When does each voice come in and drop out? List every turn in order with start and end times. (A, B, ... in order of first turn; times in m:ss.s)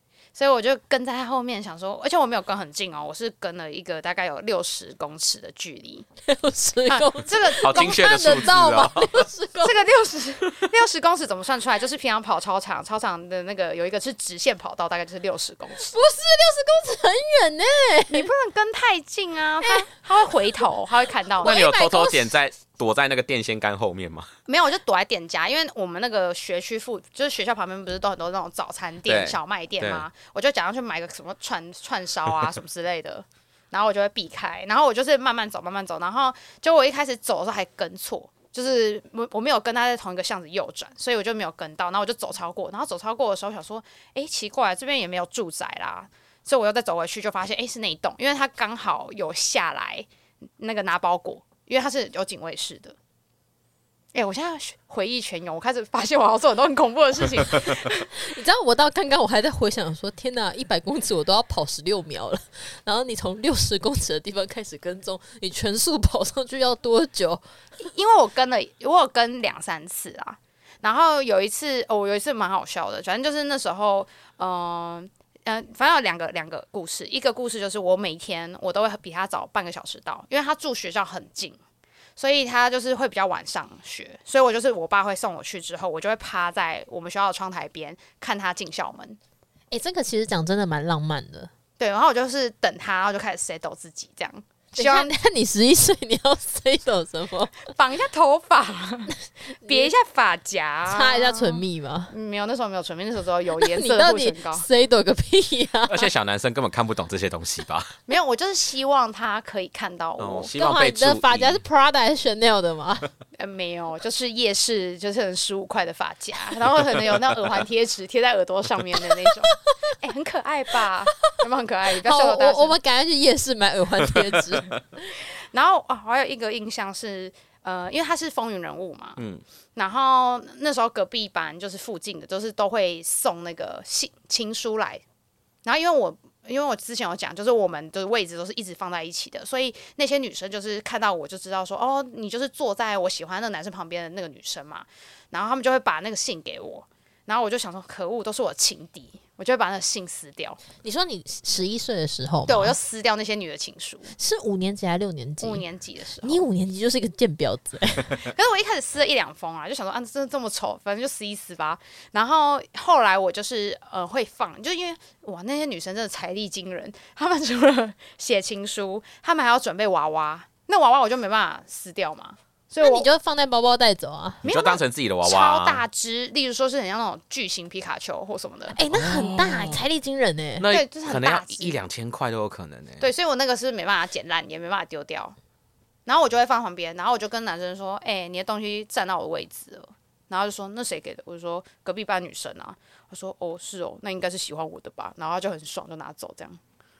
0:00.3-0:06.1 A
0:06.2-0:09.7 B
0:06.8-0:08.5 A
0:07.6-0:09.1 C
0:09.6-0:15.9 A
0:15.9-0:18.3 B
0:18.1-0:21.6 A
0:19.6-0:19.9 B
0:21.4-0:22.3 B
0:21.4-0:24.3 C
0:24.5-0:50.1 A
0:29.0-0:30.0 C
0:50.6-0:53.0 A
0:54.1-0:58.1 A
0:57.8-1:07.4 B
1:07.8-1:21.6 A
1:22.2-1:29.2 A
1:29.7-1:31.5 B
1:31.8-1:35.1 A
1:34.7-1:37.6 B
1:37.7-1:44.6 A
1:39.6-1:39.9 B
1:40.8-1:42.1 B
1:43.6-1:46.1 B
1:45.9-1:48.0 C
1:48.1-1:50.5 A
1:50.2-1:51.6 C
1:50.6-1:53.1 B
1:53.4-2:02.8 A
2:02.0-2:05.1 B
2:05.5-2:09.2 A
2:09.2-2:09.4 C
2:09.8-2:15.0 A
2:15.6-2:30.6 A
2:30.8-2:32.8 B
2:32.5-2:34.1 A
2:34.2-2:35.6 B
2:35.4-2:36.4 A
2:36.2-2:38.3 B
2:38.2-2:53.1 A
2:52.8-2:54.4 B
2:54.4-2:58.8 A
2:54.4-2:55.8 C
2:58.7-3:00.7 B
2:58.9-2:59.8 C
3:00.6-3:03.1 C
3:00.7-3:01.7 A
3:03.0-3:05.4 A
3:06.0-3:16.6 A